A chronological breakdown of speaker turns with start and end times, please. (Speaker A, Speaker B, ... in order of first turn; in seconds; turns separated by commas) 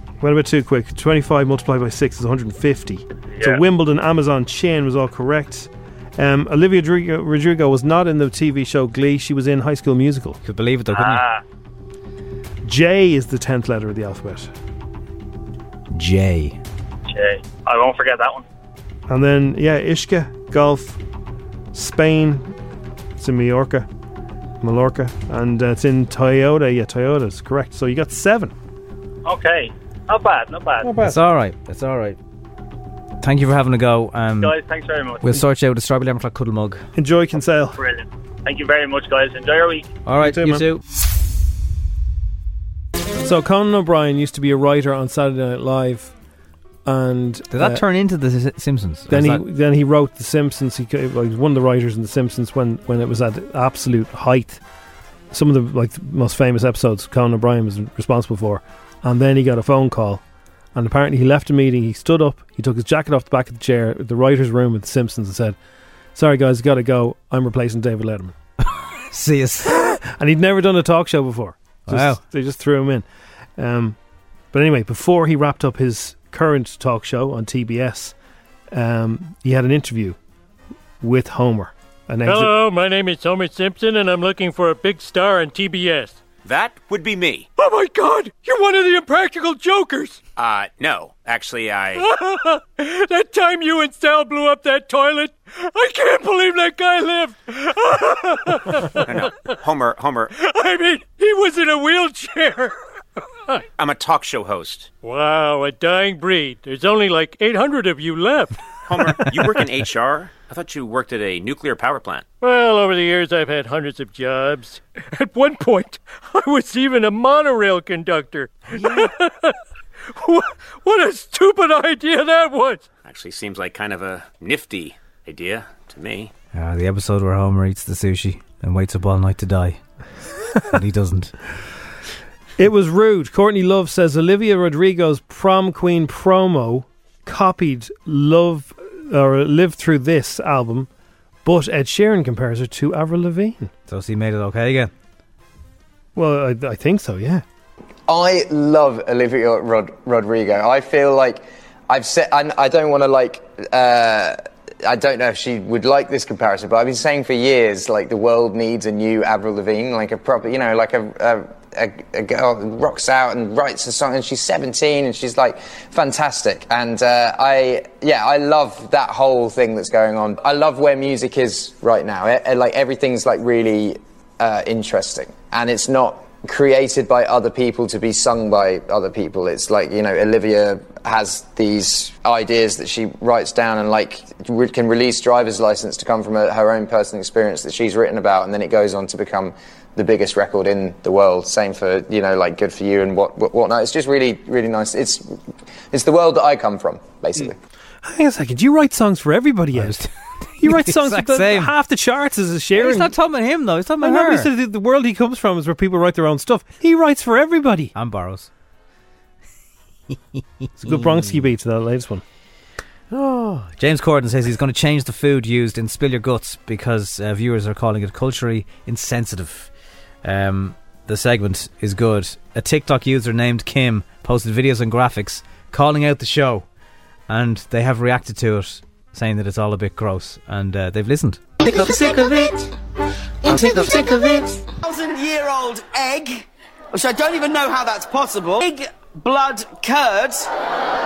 Speaker A: 0.2-10.4, Speaker B: 3.3-3.6, Speaker C: 10.4-11.2, Speaker B: 10.9-11.4, Speaker A: 12.6-14.5, Speaker C: 15.9-16.6, Speaker B: 17.1-18.4, Speaker A: 19.1-21.0, Speaker A: 21.7-22.5, Speaker A: 23.2-23.9, Speaker A: 24.6-28.5, Speaker B: 29.2-30.9, Speaker A: 30.8-31.2, Speaker C: 31.0-32.2, Speaker C: 33.2-34.6, Speaker B: 34.4-35.3, Speaker C: 35.2-36.8, Speaker A: 37.0-37.8, Speaker B: 37.7-40.0, Speaker C: 40.1-40.8, Speaker A: 40.2-40.7, Speaker A: 43.2-46.1, Speaker A: 46.9-47.8, Speaker C: 47.5-49.4, Speaker A: 49.1-54.6, Speaker A: 55.3-60.2, Speaker A: 60.8-65.6, Speaker A: 66.2-68.3, Speaker C: 69.1-69.9, Speaker A: 69.7-73.1, Speaker C: 71.9-72.2, Speaker A: 73.6-74.0, Speaker A: 74.5-78.2, Speaker A: 78.7-80.2, Speaker A: 81.0-82.5, Speaker D: 82.2-86.2, Speaker E: 86.5-87.5, Speaker D: 87.6-90.2, Speaker E: 90.4-92.1, Speaker D: 92.0-99.4, Speaker E: 99.0-100.3, Speaker D: 100.3-102.8, Speaker E: 103.8-104.9, Speaker D: 105.0-108.6, Speaker E: 108.9-112.3, Speaker D: 112.4-119.5, Speaker D: 120.2-122.9, Speaker E: 123.0-126.3, Speaker C: 126.5-129.8, Speaker C: 130.7-131.3, Speaker A: 132.6-140.9, Speaker A: 141.4-143.7, Speaker C: 143.9-144.9, Speaker A: 146.2-147.4, Speaker F: 148.1-197.6, Speaker A: 198.0-200.1, Speaker C: 199.8-200.1, Speaker A: 200.6-203.1, Speaker C: 200.6-201.7, Speaker C: 202.7-204.5, Speaker A: 204.0-207.9, Speaker C: 207.9-208.5, Speaker A: 210.8-212.2, Speaker C: 210.9-211.2, Speaker C: 213.1-219.7, Speaker C: 220.2-226.7, Speaker C: 227.3-231.4, Speaker G: 234.8-240.5